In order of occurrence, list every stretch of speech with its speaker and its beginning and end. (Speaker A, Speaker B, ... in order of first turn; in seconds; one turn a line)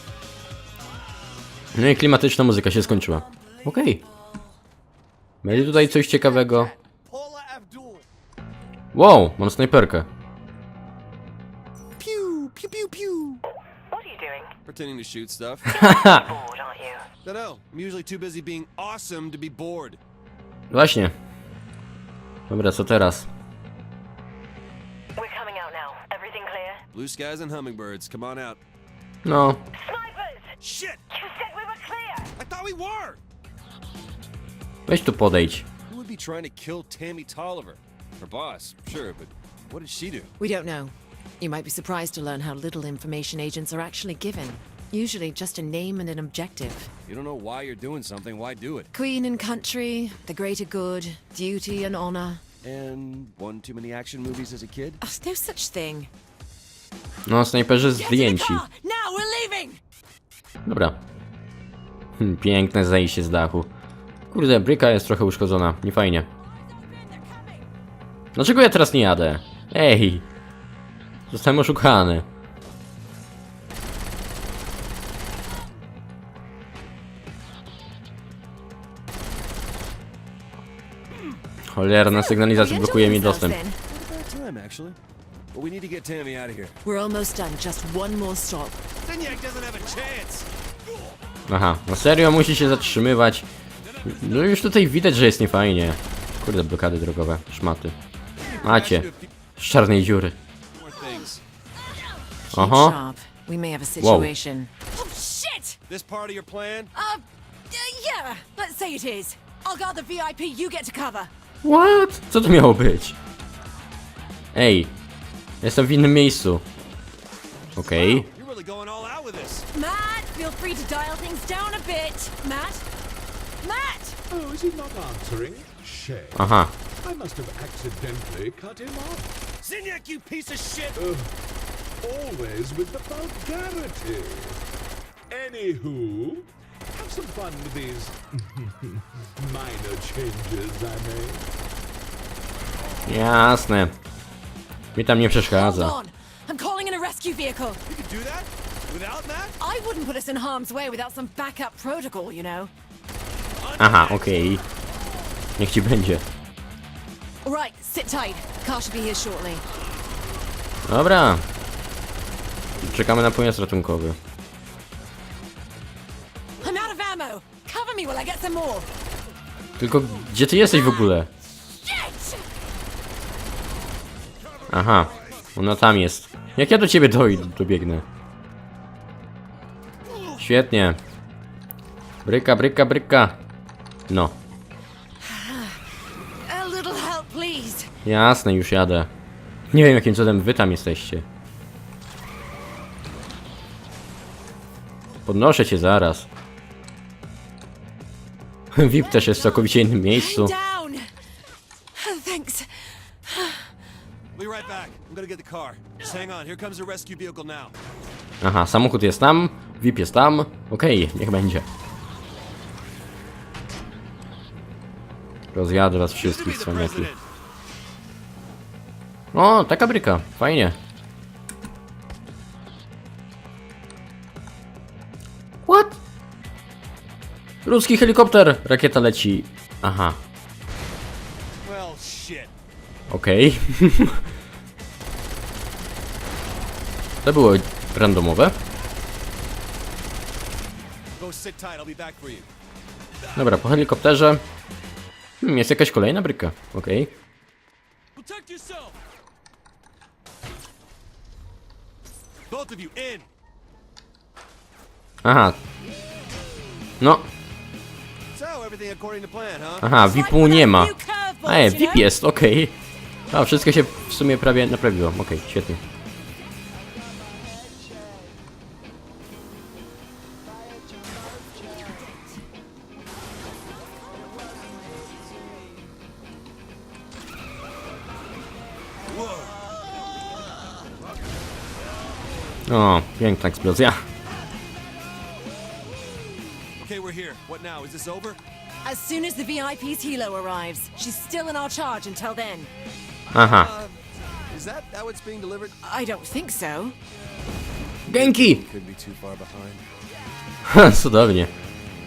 Speaker A: 1.7-4.0
Speaker A: 5.4-6.7
Speaker B: 5.5-8.1
Speaker A: 8.9-10.1
Speaker B: 12.1-13.4
Speaker C: 13.9-14.6
Speaker B: 14.6-15.8
Speaker A: 15.7-16.3
Speaker C: 15.8-17.1
Speaker B: 17.1-20.0
Speaker A: 20.7-21.1
Speaker A: 22.5-23.3
Speaker C: 25.2-26.8
Speaker B: 26.9-28.6
Speaker A: 29.2-29.6
Speaker C: 29.7-30.5
Speaker B: 30.6-31.1
Speaker C: 31.1-32.3
Speaker B: 32.3-33.2
Speaker A: 34.9-35.7
Speaker B: 35.9-40.3
Speaker D: 40.4-46.9
Speaker B: 47.1-48.9
Speaker D: 48.9-52.4
Speaker B: 52.6-55.0
Speaker D: 55.0-56.1
Speaker A: 57.3-58.6
Speaker D: 57.9-59.8
Speaker A: 60.6-61.0
Speaker A: 62.2-63.7
Speaker A: 64.3-66.3
Speaker D: 66.8-67.5
Speaker A: 68.3-70.3
Speaker A: 71.3-72.3
Speaker A: 81.7-83.6
Speaker D: 82.1-83.8
Speaker B: 83.9-85.0
Speaker B: 85.5-86.8
Speaker D: 86.8-88.8
Speaker B: 89.0-90.5
Speaker A: 91.5-93.5
Speaker B: 93.8-94.6
Speaker A: 94.1-98.0
Speaker A: 98.6-100.4
Speaker B: 98.6-99.3
Speaker B: 100.7-101.4
Speaker D: 102.5-105.8
Speaker A: 102.5-103.0
Speaker A: 104.0-104.3
Speaker B: 105.9-106.9
Speaker D: 107.0-111.3
Speaker A: 111.6-113.2
Speaker A: 114.5-114.9
Speaker A: 115.6-116.6
Speaker A: 117.8-118.3
Speaker D: 117.9-118.2
Speaker B: 118.2-119.7
Speaker D: 119.7-122.8
Speaker D: 123.6-124.2
Speaker E: 124.3-126.4
Speaker A: 126.3-126.7
Speaker E: 127.0-129.3
Speaker B: 129.6-131.0
Speaker E: 131.0-131.3
Speaker E: 132.0-134.6
Speaker E: 135.3-141.4
Speaker A: 143.1-143.9
Speaker A: 144.9-145.9
Speaker D: 145.5-147.8
Speaker B: 147.9-149.6
Speaker D: 149.6-152.7
Speaker B: 153.6-154.6
Speaker A: 153.8-154.6
Speaker A: 155.6-156.2
Speaker D: 157.4-159.6
Speaker A: 160.9-161.4
Speaker A: 162.8-164.2
Speaker D: 166.6-168.9
Speaker A: 169.8-171.3
Speaker D: 171.8-172.4
Speaker B: 174.6-175.5
Speaker A: 174.7-178.1
Speaker A: 180.4-181.0
Speaker A: 182.2-183.4
Speaker A: 184.1-184.4
Speaker D: 185.2-185.8
Speaker D: 186.4-187.9
Speaker A: 188.0-189.1
Speaker A: 189.7-191.2
Speaker A: 195.3-196.3
Speaker A: 198.7-200.5
Speaker D: 199.0-201.1
Speaker D: 201.9-203.7
Speaker B: 204.3-207.8
Speaker A: 208.4-211.7
Speaker A: 215.5-217.1
Speaker B: 216.1-217.2
Speaker A: 219.3-220.8
Speaker A: 225.6-226.0
Speaker A: 227.7-230.2
Speaker B: 231.6-232.5
Speaker A: 233.1-234.2
Speaker A: 237.2-238.6
Speaker B: 241.2-242.5
Speaker B: 243.3-243.5
Speaker A: 243.4-244.4
Speaker A: 245.4-247.1
Speaker B: 248.2-248.9
Speaker B: 252.5-253.3
Speaker A: 255.2-255.6
Speaker A: 257.0-257.3
Speaker B: 258.3-259.9
Speaker A: 259.8-262.8
Speaker D: 260.0-262.0
Speaker A: 263.3-265.8
Speaker B: 279.1-279.5
Speaker A: 282.7-284.0
Speaker B: 286.8-288.4
Speaker D: 288.8-292.7
Speaker A: 293.3-293.7
Speaker B: 293.3-295.8
Speaker D: 295.8-297.0
Speaker B: 298.1-299.9
Speaker A: 298.1-298.6
Speaker A: 300.7-301.5